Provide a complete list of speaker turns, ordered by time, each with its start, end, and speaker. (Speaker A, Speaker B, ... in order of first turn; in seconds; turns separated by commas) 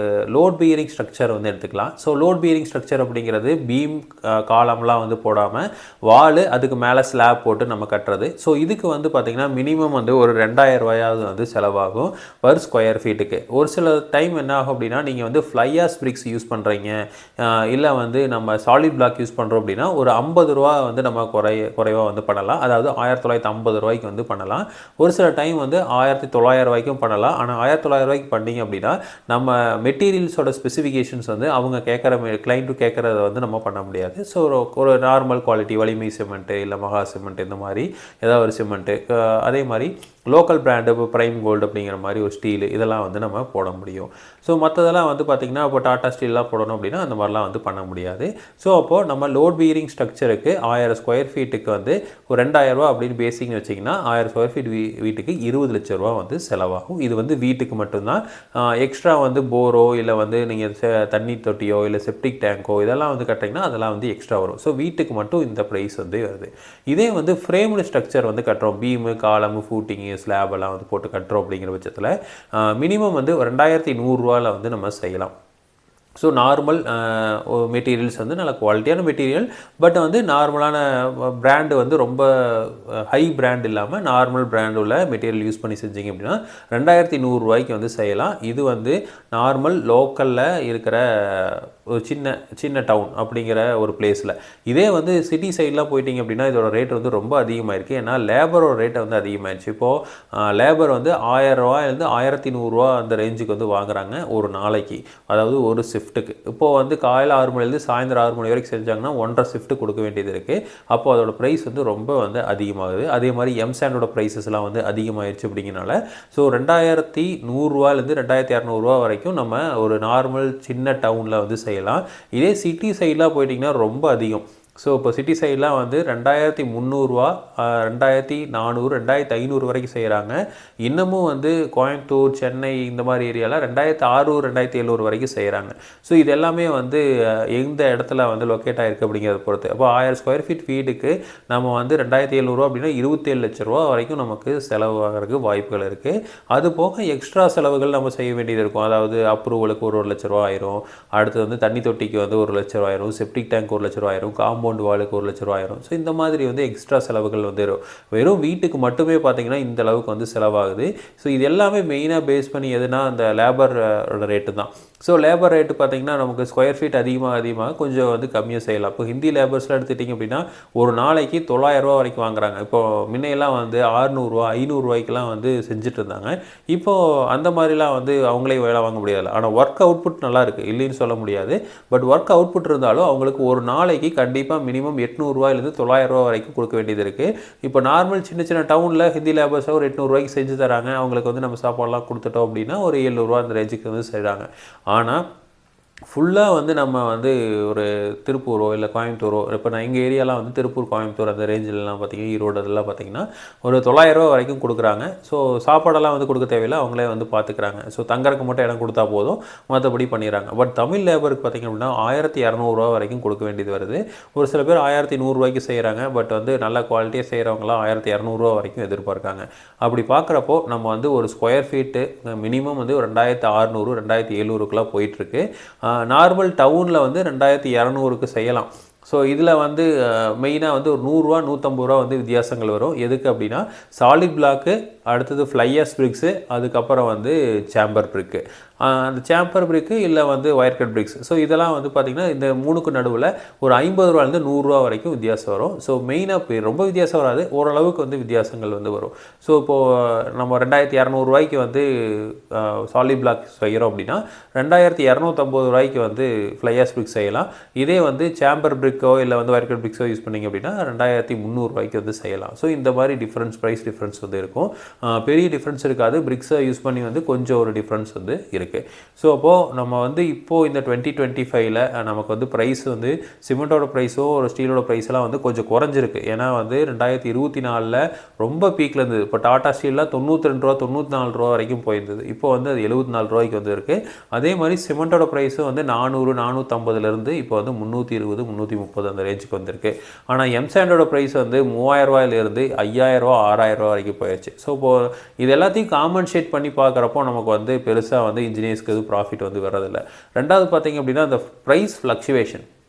Speaker A: 0.3-75.3, Speaker A: 76.2-195.2, Speaker A: 196.1-302.6